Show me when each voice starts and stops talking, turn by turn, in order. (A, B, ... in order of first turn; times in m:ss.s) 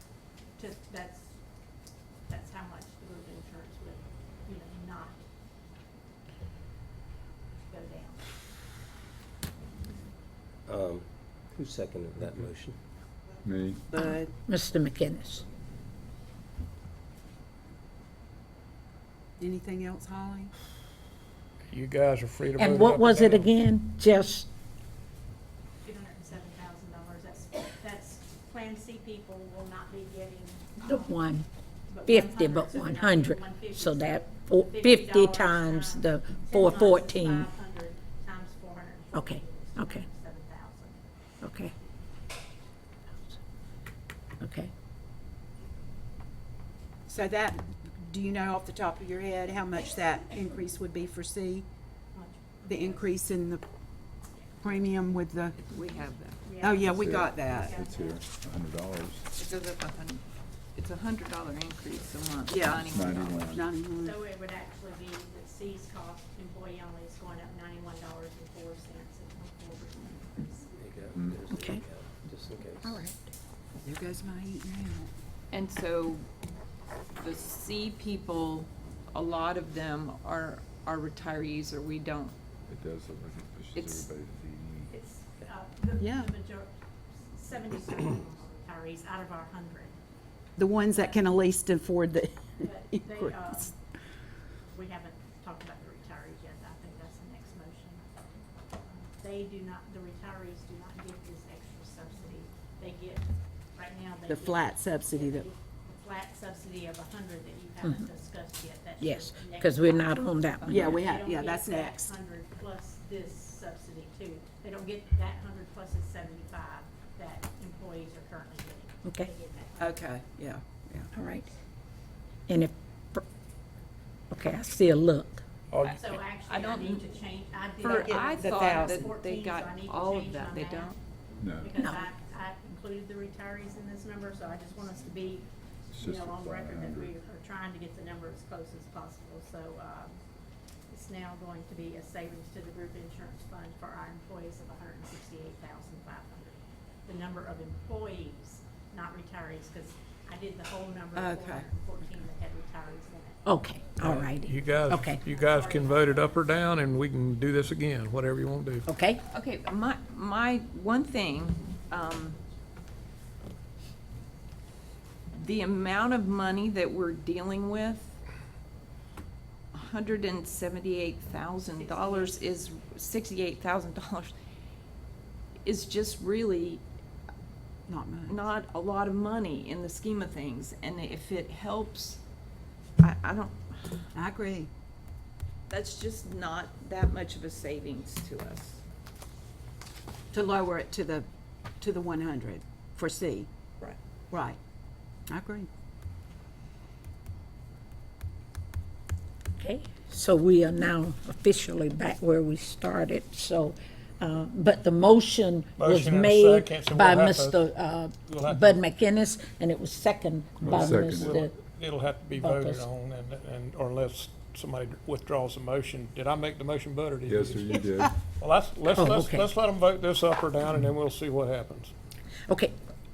0:00.6-0:01.4 A
0:02.3-0:05.2 A
0:07.7-0:08.3 A
0:10.7-0:12.8 B
0:13.4-0:13.9 C
0:13.9-0:14.3 D
0:14.1-0:15.4 E
0:19.4-0:20.5 D
0:21.7-0:23.5 F
0:22.6-0:24.5 E
0:25.8-0:31.1 A
0:30.8-0:31.5 E
0:31.9-0:41.2 A
0:32.0-0:37.5 E
0:39.1-0:40.0 E
0:41.4-0:41.7 E
0:44.4-0:44.7 E
0:47.1-0:51.7 D
0:52.1-0:53.1 A
0:52.7-0:53.6 D
0:54.6-0:55.6 D
0:55.6-0:56.4 G
0:56.4-0:58.2 A
0:56.6-0:57.7 D
0:56.8-0:59.3 C
0:59.3-1:03.6 G
1:02.5-1:02.9 D
1:02.6-1:03.7 C
1:03.5-1:04.2 D
1:04.0-1:10.7 A
1:10.8-1:12.9 B
1:11.1-1:11.4 C
1:11.5-1:11.8 E
1:12.8-1:13.3 E
1:13.8-1:15.1 D
1:15.5-1:16.2 G
1:17.2-1:22.4 G
1:22.7-1:24.9 C
1:23.7-1:24.0 G
1:24.9-1:30.0 A
1:26.0-1:26.3 D
1:30.6-1:33.4 D
1:30.9-1:31.3 A
1:32.6-1:33.8 A
1:34.7-2:00.0 A
1:44.3-1:45.5 D
1:49.0-1:51.0 E
1:50.6-1:50.9 G
1:50.7-1:52.1 D
1:59.8-2:01.1 D
2:01.1-2:01.5 E
2:02.5-2:03.2 E
2:04.3-2:05.4 E
2:05.7-2:06.1 F
2:05.8-2:07.1 G
2:06.0-2:20.2 A
2:07.8-2:11.0 G
2:08.0-2:08.9 D
2:11.4-2:11.8 C
2:15.9-2:17.2 C
2:20.9-2:33.4 A
2:31.1-2:31.7 D
2:33.4-2:35.2 E
2:34.0-2:38.8 F
2:35.0-2:36.6 A
2:38.9-2:39.2 E
2:39.3-2:42.4 G
2:45.3-2:48.2 G
2:49.7-2:54.3 G
2:51.8-2:52.4 A
2:55.6-2:56.8 G
2:57.9-2:58.4 D
2:58.3-3:02.2 G
3:03.0-3:04.0 G
3:04.1-3:04.7 D
3:05.7-3:08.8 G
3:10.3-3:11.3 D
3:11.8-3:13.5 D
3:14.3-3:14.6 D
3:15.3-3:15.7 D
3:19.6-3:31.5 E
3:25.8-3:27.6 F
3:28.3-3:28.8 F
3:30.6-3:31.4 C
3:30.6-3:37.7 F
3:32.4-3:32.8 E
3:37.3-3:38.1 C
3:37.7-3:38.0 D
3:38.4-3:41.9 F
3:38.9-3:39.5 E
3:42.5-3:42.7 E